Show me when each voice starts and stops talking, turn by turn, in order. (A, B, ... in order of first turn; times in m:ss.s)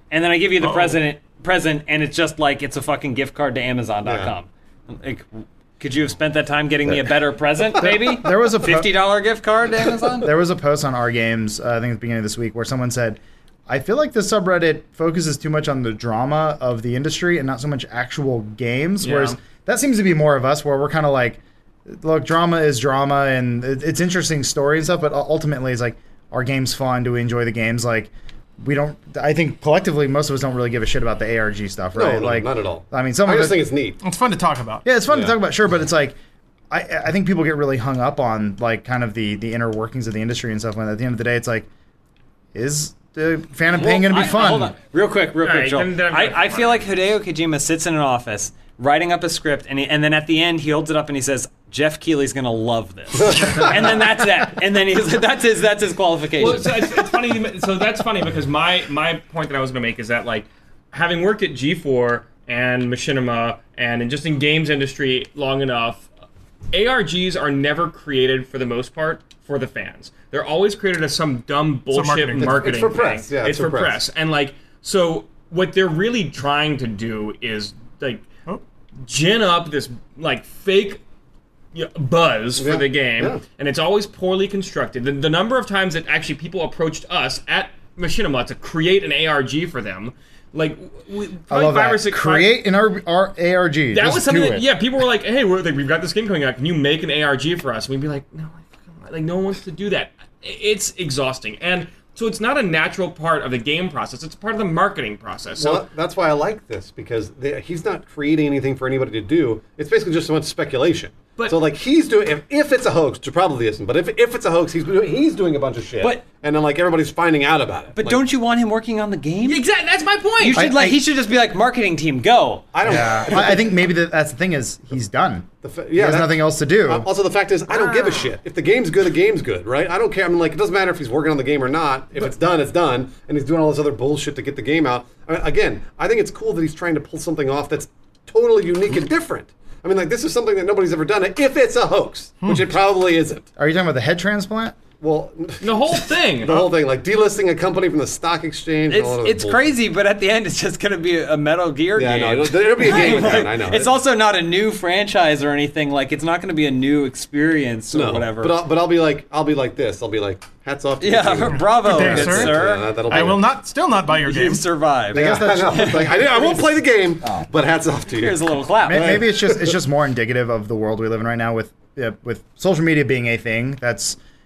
0:00.1-0:10.3 A
0:00.6-0:01.0 B
0:04.0-0:04.3 C
0:07.8-0:09.0 D
0:10.2-0:33.7 D
0:19.0-0:19.4 E
0:32.0-0:34.0 C
0:34.0-0:34.9 B
0:34.8-0:36.2 D
0:35.1-0:35.4 C
0:36.7-0:41.7 D
0:42.5-0:44.8 D
0:43.8-0:57.0 A
0:45.4-0:46.9 E
0:56.4-1:06.1 E
1:06.7-1:18.3 E
1:11.9-1:12.7 B
1:12.4-1:14.0 C
1:19.0-1:21.0 E
1:21.7-1:32.6 E
1:22.6-1:23.4 C
1:31.5-1:34.7 D
1:33.9-1:45.8 E
1:45.6-1:58.2 C
1:56.0-1:56.2 A
1:58.0-1:59.6 A
1:59.4-2:00.6 E
2:00.4-2:02.8 A
2:00.5-2:01.0 D
2:02.7-2:03.7 C
2:02.8-2:07.1 D
2:05.6-2:23.5 C
2:07.7-2:08.3 E
2:22.4-2:22.7 B
2:23.6-2:24.8 D
2:25.0-2:29.7 C
2:25.6-2:26.7 E
2:28.9-2:38.6 A
2:32.0-2:34.0 C
2:37.9-2:43.5 C
2:41.0-2:43.4 A
2:41.6-2:44.7 B
2:44.0-2:46.7 A
2:45.1-2:49.8 C
2:45.1-2:46.1 D
2:48.1-2:49.2 A
2:48.8-2:54.2 D